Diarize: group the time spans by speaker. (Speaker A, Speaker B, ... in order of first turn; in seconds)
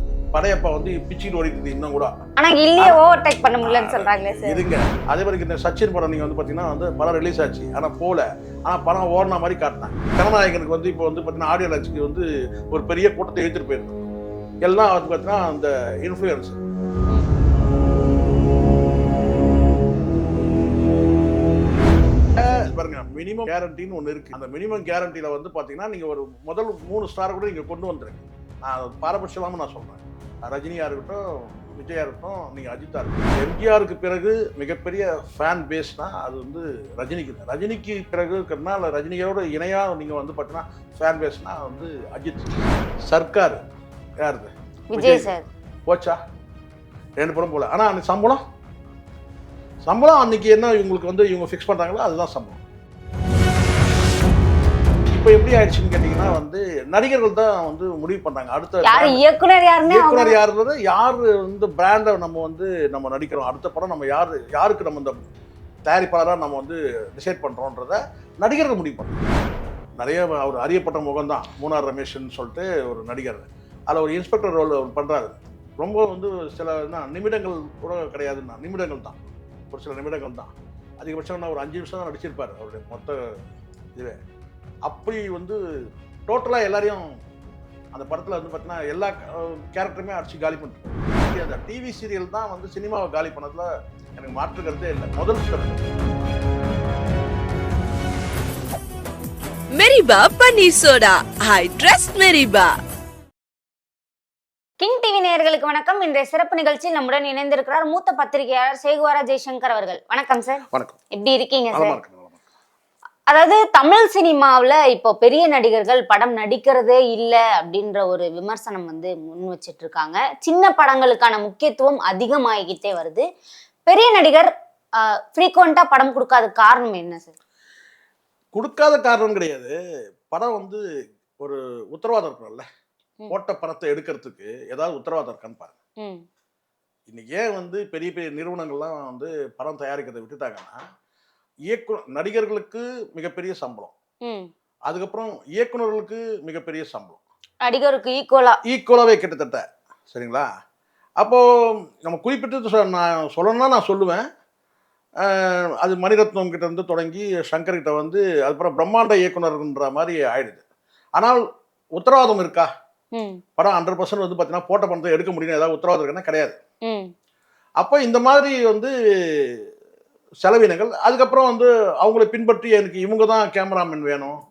Speaker A: 0.3-2.1, 3.6-14.0, 14.6-16.6, 22.4-31.2, 31.7-42.5, 43.1-43.6, 44.2-45.3, 45.9-46.2, 47.2-48.4, 49.9-52.6, 55.1-59.2, 59.9-65.1, 65.9-69.2, 70.0-83.2, 84.9-85.6, 86.3-87.1, 87.9-95.8, 110.7-111.0, 111.7-112.4, 128.5-129.7, 130.3-130.8, 131.4-132.6, 133.3-135.7, 137.1-140.8, 141.7-143.9, 144.9-147.2, 148.7-150.5, 152.0-154.2, 155.2-160.6, 162.0-162.7, 163.6-166.6, 167.8-169.6, 170.4-174.4
Speaker B: 2.4-4.6, 44.9-45.5, 58.8-60.4, 104.8-112.0, 113.3-123.2, 123.9-127.3, 144.2-144.5, 147.6-148.6, 163.1-163.4
Speaker C: 99.7-102.8